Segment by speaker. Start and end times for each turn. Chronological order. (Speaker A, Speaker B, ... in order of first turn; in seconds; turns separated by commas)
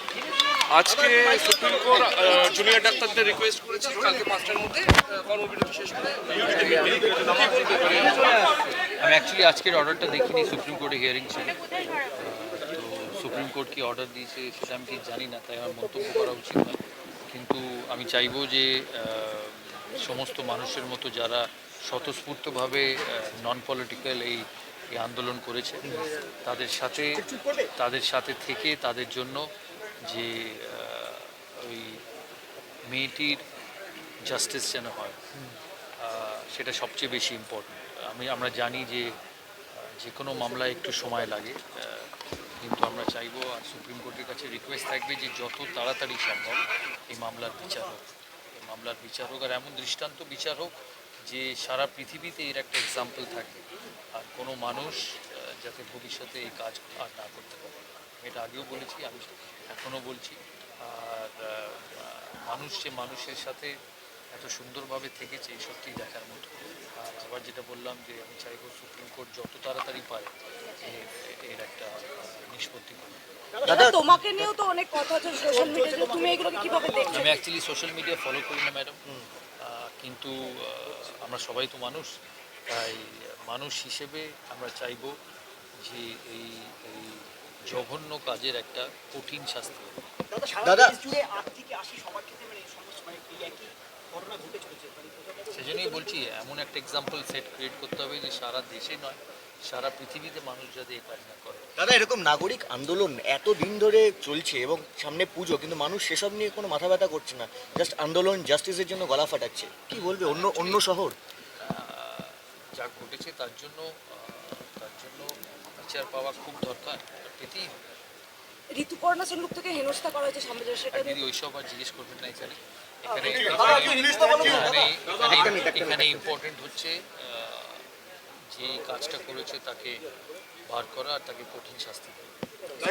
Speaker A: 0.7-8.1, Speaker B: 7.8-8.4, Speaker B: 9.0-11.6, Speaker B: 12.1-29.4, Speaker B: 30.0-32.0, Speaker B: 32.9-33.4, Speaker B: 34.2-35.2, Speaker B: 36.0-39.1, Speaker B: 39.8-53.6, Speaker B: 54.1-63.7, Speaker B: 64.3-73.2, Speaker C: 73.7-74.1, Speaker D: 73.7-77.2, Speaker B: 77.1-79.0, Speaker B: 79.6-82.1, Speaker B: 82.7-85.1, Speaker B: 85.8-89.9, Speaker E: 90.3-95.7, Speaker C: 90.6-91.1, Speaker B: 95.5-101.7, Speaker C: 101.8-111.1, Speaker B: 109.9-110.8, Speaker B: 111.5-117.7, Speaker D: 118.8-121.2, Speaker B: 120.9-127.8, Speaker C: 124.4-124.7, Speaker B: 128.5-129.9, Speaker B: 130.7-132.3